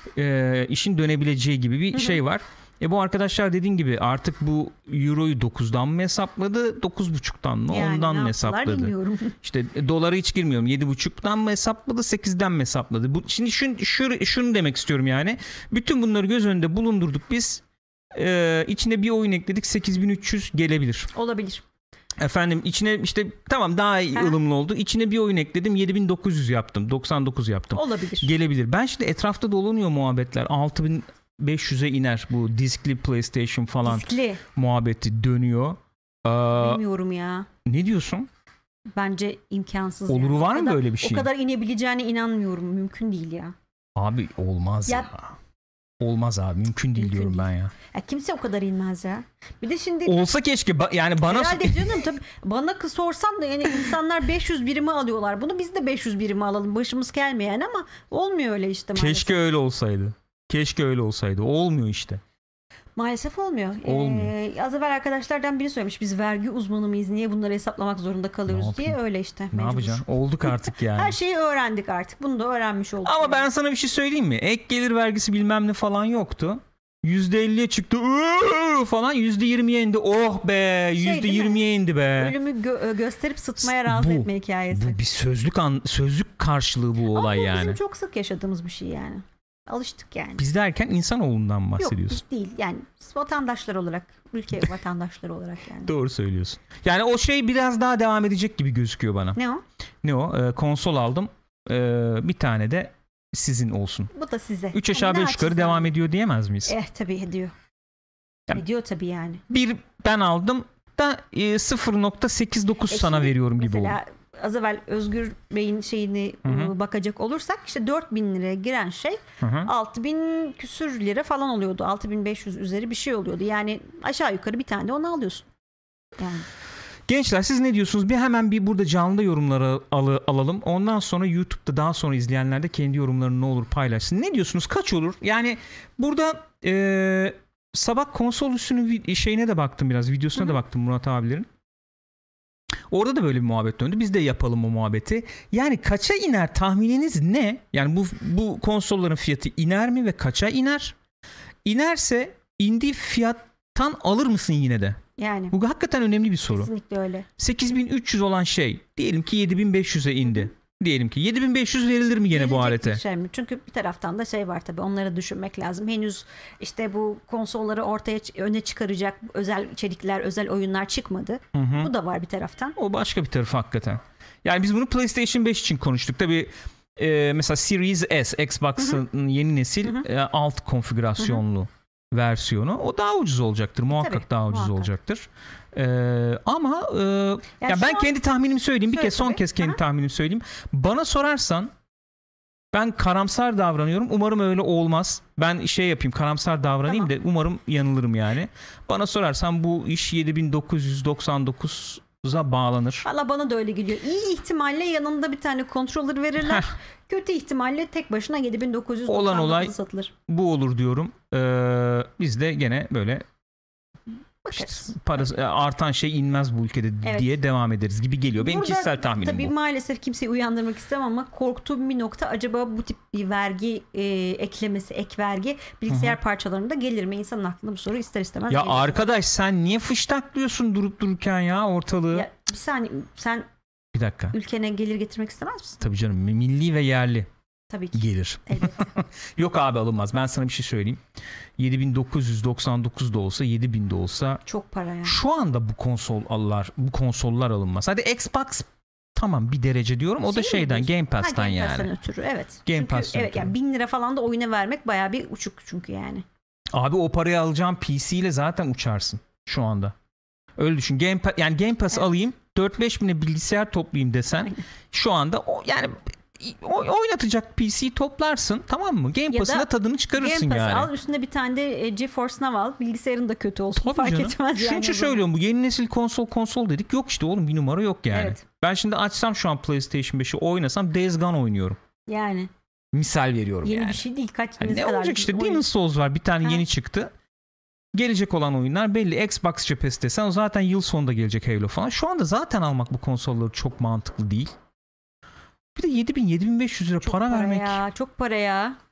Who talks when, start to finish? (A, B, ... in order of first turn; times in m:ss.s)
0:00.2-0:17.6 A
0:01.9-0:02.2 B
0:07.7-0:09.4 B
0:18.2-0:21.1 A
0:21.1-0:21.6 B
0:22.2-0:36.8 A
0:27.7-0:28.3 B
0:33.8-0:34.4 B
0:36.6-0:37.5 B
0:37.7-0:38.3 A
0:39.0-0:43.6 B
0:40.1-0:41.3 A
0:44.0-0:45.3 A
0:46.0-0:47.7 A
0:47.0-0:50.2 B
0:50.0-0:52.0 A
0:51.2-0:59.4 B
0:59.0-1:02.2 A
1:03.0-1:13.5 B
1:03.8-1:04.3 A
1:08.5-1:09.0 A
1:09.5-1:11.2 A
1:13.1-1:22.4 A
1:21.0-1:25.0 B
1:23.6-1:27.8 A
1:27.1-1:30.4 B
1:30.4-1:32.2 A
1:31.8-1:35.9 B
1:35.8-1:39.4 A
1:39.4-1:39.6 B
1:40.0-1:44.1 A
1:44.1-1:46.0 B
1:44.7-1:46.7 A
1:46.7-1:47.5 B
1:48.5-1:49.4 B
1:49.5-1:54.0 A
1:52.9-2:05.5 B
1:56.4-1:56.7 A
1:59.4-1:59.7 A
2:06.2-2:06.5 B
2:07.1-2:21.5 A
2:22.9-2:31.0 A
2:31.6-2:35.0 A
2:35.2-2:35.6 B
2:35.5-2:36.7 A
2:36.5-2:37.3 B
2:37.4-2:43.0 A
2:42.3-2:52.8 B
2:51.5-2:51.9 A
2:52.8-3:11.7 A
3:03.9-3:04.9 B
3:07.6-3:08.1 B
3:08.9-3:09.8 B
3:12.7-3:23.1 A
3:16.8-3:17.1 B
3:23.0-3:30.1 B
3:26.4-3:26.7 A
3:29.1-3:29.7 A
3:30.3-3:33.2 A
3:34.4-3:34.9 B
3:34.5-3:39.5 A
3:37.0-3:37.4 B
3:38.4-3:49.0 B
3:45.9-3:46.2 A
3:48.5-3:52.3 A
3:52.1-3:53.5 B
3:53.9-3:54.4 A
3:54.3-3:55.8 B
3:55.8-3:57.3 A
3:57.7-3:58.8 B
3:58.0-4:01.0 A
4:01.6-4:04.4 A
4:04.5-4:05.2 B
4:05.0-4:11.9 A
4:10.2-4:16.2 B
4:12.7-4:13.5 A
4:16.7-4:19.9 A
4:20.6-4:30.9 A
4:24.4-4:24.6 B
4:29.3-4:35.2 B
4:33.8-4:41.8 A
4:38.1-4:38.4 B
4:42.1-4:42.5 B
4:42.9-4:44.0 A
4:43.6-4:45.6 B
4:44.6-4:47.1 A
4:47.9-4:54.5 A
4:55.8-4:57.8 A
4:57.0-4:58.8 B